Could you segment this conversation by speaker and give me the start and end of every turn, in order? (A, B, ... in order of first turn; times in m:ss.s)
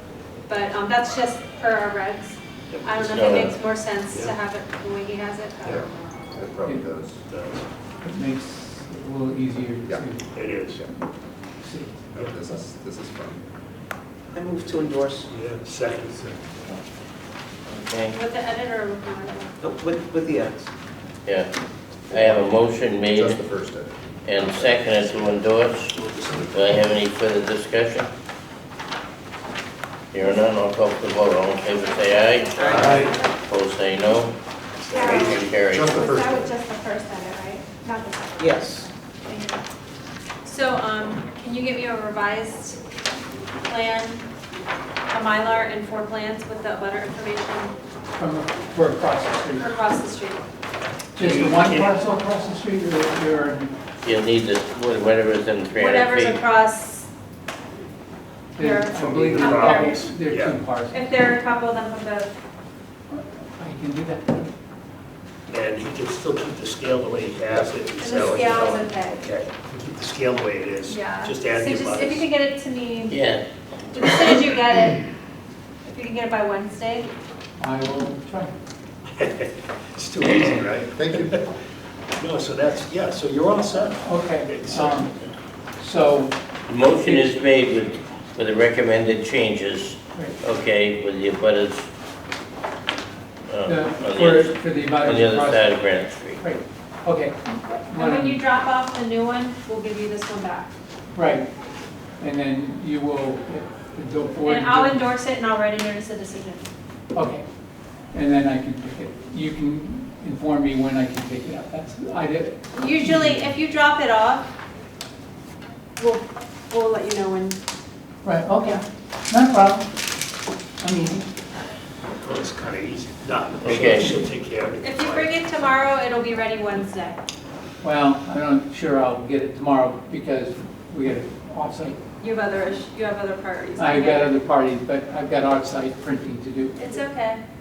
0:00.5-0:05.9 A
0:02.7-0:03.5 B
0:03.0-0:03.5 C
0:05.7-0:07.2 D
0:06.6-0:06.9 E
0:07.3-0:07.6 B
0:08.0-0:10.2 E
0:10.3-0:10.8 B
0:11.6-0:12.0 E
0:12.1-0:13.4 D
0:14.3-0:15.3 F
0:15.3-0:16.4 B
0:17.7-0:18.2 C
0:18.1-0:19.6 A
0:19.6-0:20.7 F
0:22.1-0:23.4 C
0:22.2-0:22.5 D
0:23.1-0:24.8 D
0:24.3-0:26.0 C
0:25.9-0:26.8 B
0:26.5-0:28.1 C
0:30.1-0:32.6 C
0:31.6-0:33.3 A
0:32.6-0:33.1 F
0:32.6-0:33.2 B
0:32.7-0:33.1 D
0:33.4-0:34.3 C
0:34.8-0:35.5 B
0:34.9-0:35.4 G
0:35.2-0:36.3 C
0:35.7-0:36.5 D
0:35.9-0:38.3 G
0:37.2-0:38.0 A
0:38.4-0:38.9 F
0:39.3-0:39.6 G
0:40.4-0:42.8 A
0:43.7-0:44.2 A
0:45.1-0:47.7 A
0:48.2-0:49.7 E
0:49.6-0:50.4 A
0:51.2-0:52.0 B
0:51.2-0:53.7 E
0:54.0-0:56.4 C
0:55.8-0:57.1 A
0:58.6-1:01.1 E
0:58.6-1:00.0 A
0:58.9-1:00.6 B
1:00.9-1:02.3 A
1:03.1-1:04.5 E
1:05.5-1:12.3 B
1:08.0-1:09.3 A
1:10.9-1:13.2 A
1:13.1-1:13.4 C
1:13.9-1:15.0 A
1:14.0-1:14.3 C
1:15.8-1:17.1 A
1:17.6-1:18.5 E
1:19.2-1:21.5 B
1:21.0-1:21.4 D
1:22.2-1:25.3 B
1:24.0-1:25.1 E
1:25.8-1:26.3 E
1:26.7-1:31.9 C
1:27.0-1:27.4 E
1:33.5-1:36.4 C
1:33.6-1:35.9 E
1:36.4-1:38.4 E
1:37.9-1:40.7 A
1:41.1-1:41.5 E
1:42.2-1:45.1 E
1:44.4-1:46.7 A
1:47.1-1:47.4 E
1:48.1-1:53.6 E
1:52.7-1:54.5 A
1:56.0-1:57.6 A
1:58.2-1:59.9 E
2:00.8-2:01.3 E
2:02.2-2:05.5 B
2:03.6-2:04.2 C
2:04.8-2:07.2 A
2:07.8-2:12.0 E
2:12.2-2:14.4 A
2:13.8-2:16.8 E
2:16.8-2:17.4 A